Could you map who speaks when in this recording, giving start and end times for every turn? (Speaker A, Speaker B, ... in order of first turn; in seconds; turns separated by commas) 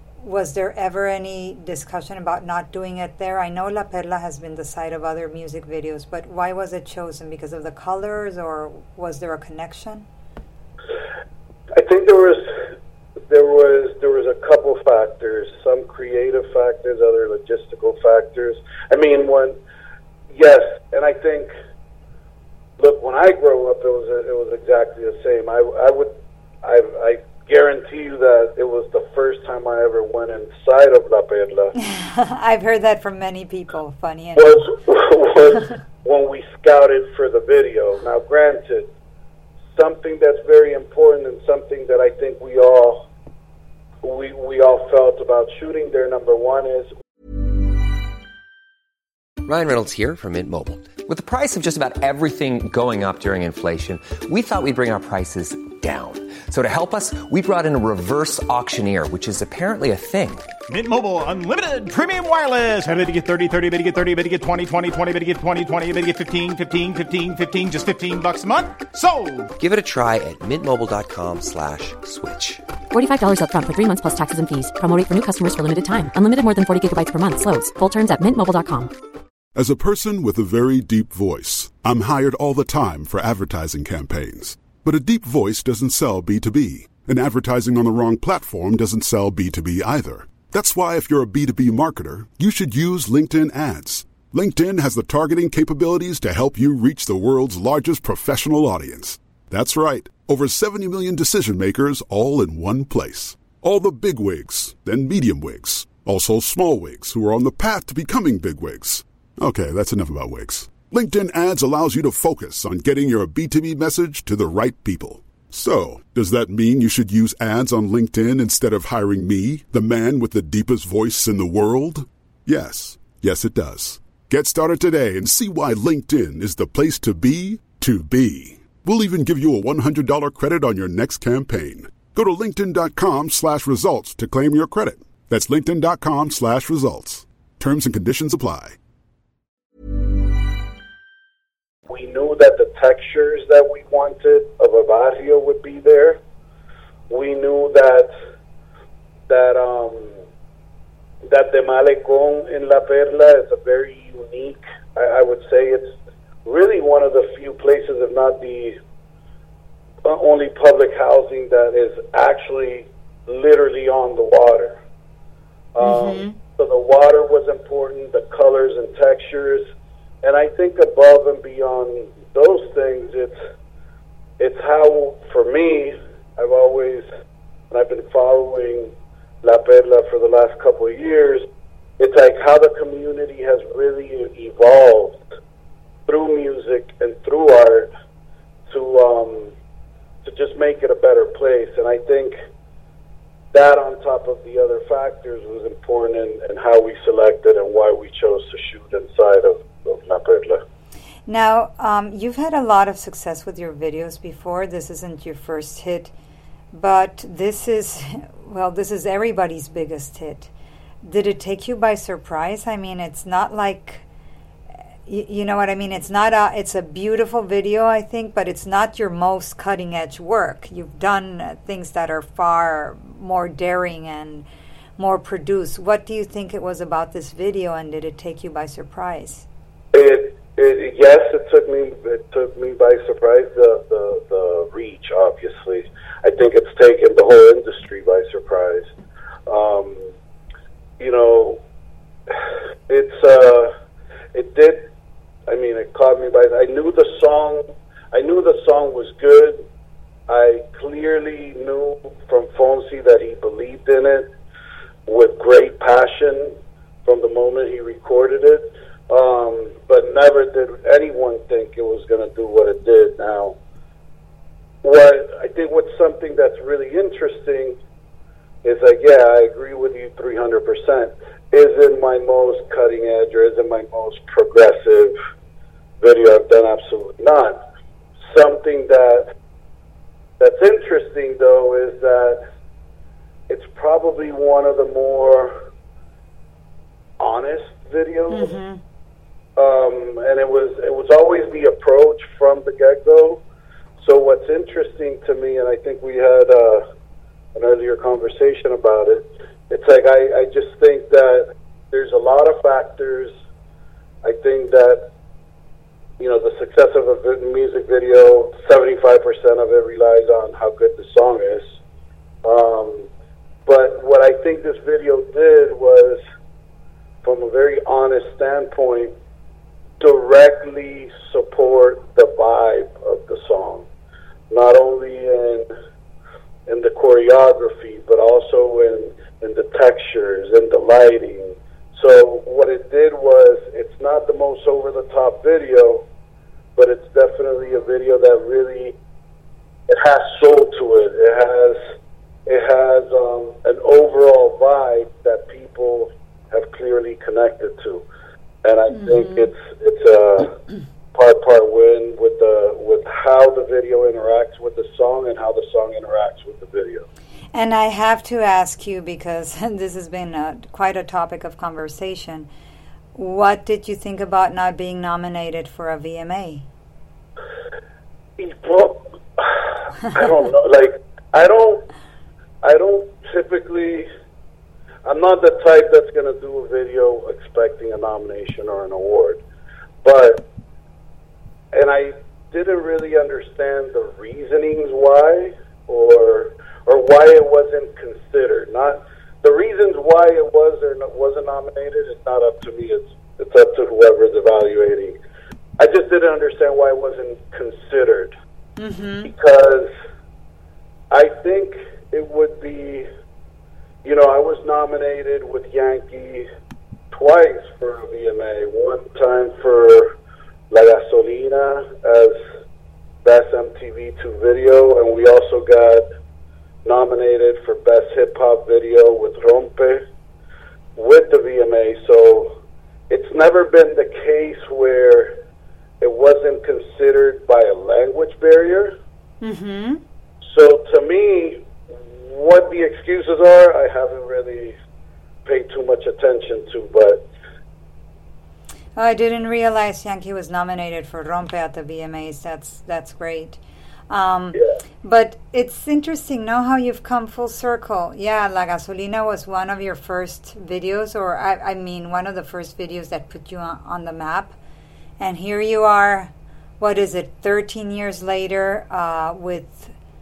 Speaker A: 0.2-10.1, Speaker B: 11.8-12.5, Speaker B: 13.3-19.6, Speaker B: 20.3-21.5, Speaker B: 22.8-26.1, Speaker B: 26.6-31.7, Speaker A: 31.8-34.7, Speaker B: 34.4-38.9, Speaker B: 39.7-43.1, Speaker B: 44.0-46.9, Speaker C: 49.4-60.5, Speaker D: 60.7-69.5, Speaker C: 69.6-72.6, Speaker E: 72.9-78.9, Speaker F: 79.5-138.8, Speaker B: 141.9-146.2, Speaker B: 147.1-148.1, Speaker B: 149.3-150.1, Speaker B: 151.3-155.9, Speaker B: 156.4-158.8, Speaker B: 160.1-164.8, Speaker B: 165.8-169.6, Speaker A: 165.8-166.4, Speaker B: 170.2-173.3, Speaker B: 174.4-177.1, Speaker B: 177.7-178.9, Speaker B: 179.4-181.4, Speaker B: 182.0-185.2, Speaker B: 186.1-187.9, Speaker B: 188.7-189.5, Speaker B: 190.2-192.3, Speaker B: 193.5-200.6, Speaker A: 201.3-206.1, Speaker A: 206.7-210.5, Speaker A: 211.0-214.1, Speaker A: 215.1-229.5, Speaker B: 229.9-238.9, Speaker B: 239.5-240.1, Speaker B: 241.0-241.6, Speaker B: 242.9-243.7, Speaker B: 244.3-244.8, Speaker B: 245.5-249.6, Speaker B: 250.3-254.3, Speaker B: 255.1-263.6, Speaker B: 264.8-267.8, Speaker B: 268.6-275.1, Speaker B: 276.0-277.6, Speaker B: 278.3-279.3, Speaker B: 280.4-282.4, Speaker B: 283.5-285.6, Speaker B: 287.2-288.5, Speaker A: 288.3-288.8, Speaker B: 289.6-293.4, Speaker B: 294.0-296.8, Speaker B: 297.6-303.3, Speaker B: 304.2-305.1, Speaker B: 306.2-311.6, Speaker B: 312.4-313.1, Speaker B: 313.7-316.2, Speaker B: 317.2-319.1, Speaker B: 320.0-323.9, Speaker B: 324.5-325.7, Speaker B: 326.7-336.1, Speaker B: 336.8-338.9, Speaker B: 339.9-341.8, Speaker B: 342.5-348.1, Speaker B: 348.6-350.6, Speaker A: 348.9-349.5, Speaker B: 351.1-357.1, Speaker A: 357.5-362.5, Speaker A: 363.1-366.7, Speaker B: 368.4-371.9, Speaker B: 372.6-374.1, Speaker B: 375.1-379.4, Speaker B: 380.0-380.5, Speaker B: 381.7-395.2, Speaker B: 395.8-398.4, Speaker A: 398.8-399.3, Speaker B: 399.2-399.9, Speaker B: 401.1-403.1, Speaker B: 404.0-406.5, Speaker B: 407.1-410.1, Speaker B: 410.7-412.4, Speaker B: 413.2-416.1, Speaker B: 416.9-420.0, Speaker B: 421.0-422.6, Speaker B: 423.1-425.4, Speaker B: 426.0-429.0, Speaker A: 429.4-430.0, Speaker B: 430.4-431.7, Speaker B: 432.2-434.8, Speaker B: 435.4-437.3, Speaker A: 439.0-454.6, Speaker A: 455.2-459.9